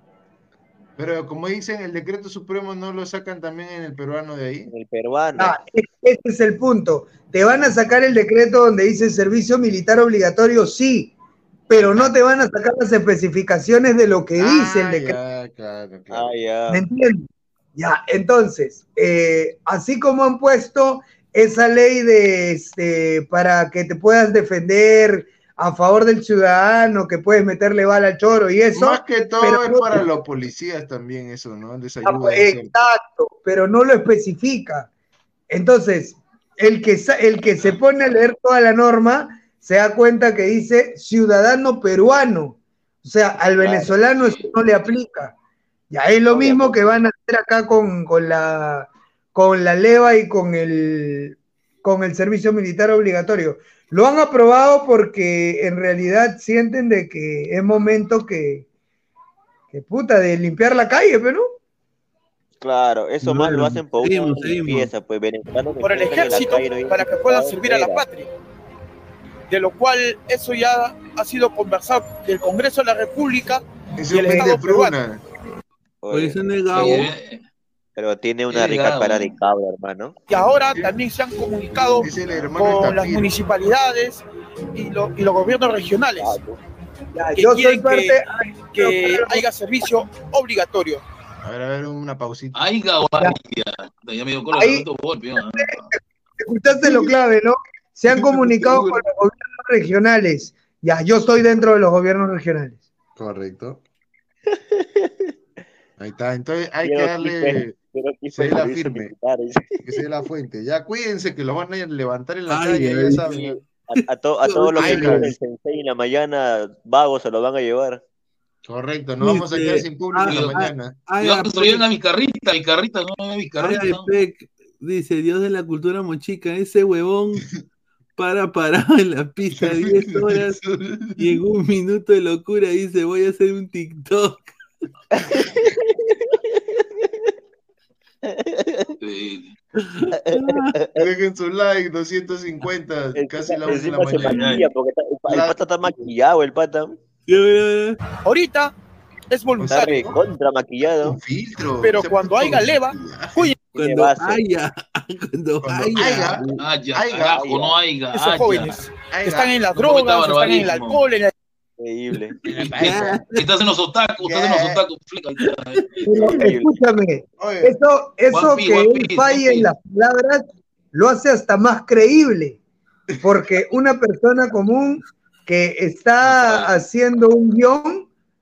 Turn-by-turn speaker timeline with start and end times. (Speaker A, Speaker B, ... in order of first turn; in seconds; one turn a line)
Speaker A: 1.0-4.7
Speaker B: 4.7-5.6
Speaker C: 5.4-11.1
Speaker C: 11.7-15.2
Speaker A: 11.8-12.1
Speaker A: 14.4-16.4
Speaker B: 16.1-16.8
Speaker C: 16.7-30.0
Speaker A: 28.7-32.8
Speaker C: 32.0-34.9
Speaker C: 35.5-45.3
Speaker B: 43.6-43.9
Speaker D: 44.1-44.7
Speaker C: 45.9-58.7
Speaker B: 46.3-46.9
Speaker C: 59.7-61.4
Speaker B: 62.6-68.0
Speaker E: 63.2-64.9
Speaker F: 65.8-68.3
Speaker F: 69.5-75.0
Speaker A: 74.0-75.2
Speaker C: 74.2-74.5
Speaker B: 76.0-77.1
Speaker E: 76.1-77.1
Speaker D: 76.7-77.4
Speaker B: 78.0-80.1
Speaker D: 78.5-79.3
Speaker F: 80.3-86.4
Speaker A: 82.0-83.3
Speaker B: 86.2-86.6
Speaker C: 87.1-89.5
Speaker F: 87.3-88.2
Speaker F: 88.7-91.0
Speaker A: 91.4-92.6
Speaker D: 92.5-95.8
Speaker C: 94.5-94.8
Speaker C: 95.4-102.8
Speaker A: 96.7-97.2
Speaker A: 98.1-99.0
Speaker A: 103.2-103.8
Speaker B: 104.5-105.1
Speaker A: 106.0-107.8
Speaker B: 106.8-110.0
Speaker A: 108.3-109.1
Speaker A: 109.7-113.6
Speaker E: 112.5-113.3
Speaker B: 113.2-118.0
Speaker E: 113.9-115.3
Speaker A: 114.8-115.3
Speaker A: 118.6-121.0
Speaker E: 119.2-121.8
Speaker D: 120.3-120.5
Speaker D: 121.2-124.1
Speaker E: 123.6-127.5
Speaker E: 128.2-130.6
Speaker A: 129.5-131.4
Speaker E: 131.2-134.4
Speaker B: 135.1-135.9
Speaker B: 138.2-138.9
Speaker D: 139.0-139.5
Speaker E: 139.8-140.7
Speaker B: 140.2-140.9
Speaker A: 140.9-144.6
Speaker B: 143.1-147.0
Speaker E: 144.1-144.6
Speaker D: 144.2-144.6
Speaker A: 145.3-146.1
Speaker E: 147.3-148.0
Speaker F: 148.2-148.7
Speaker F: 149.3-150.1
Speaker A: 149.6-150.2
Speaker B: 149.8-151.2
Speaker A: 151.0-153.5
Speaker F: 151.8-153.6
Speaker B: 153.7-154.4
Speaker E: 153.7-156.7
Speaker A: 155.6-157.5
Speaker D: 156.5-158.8
Speaker B: 157.3-157.8
Speaker F: 158.1-161.3
Speaker A: 159.1-159.7
Speaker D: 159.8-161.0
Speaker B: 161.8-163.1
Speaker A: 162.5-163.2
Speaker D: 162.5-162.8
Speaker E: 162.7-163.5
Speaker D: 163.3-166.0
Speaker A: 164.2-164.8
Speaker E: 165.4-166.1
Speaker B: 166.1-166.8
Speaker C: 166.1-172.6
Speaker A: 167.4-167.7
Speaker D: 168.3-169.7
Speaker A: 173.1-173.5
Speaker C: 173.2-178.1
Speaker B: 176.3-176.7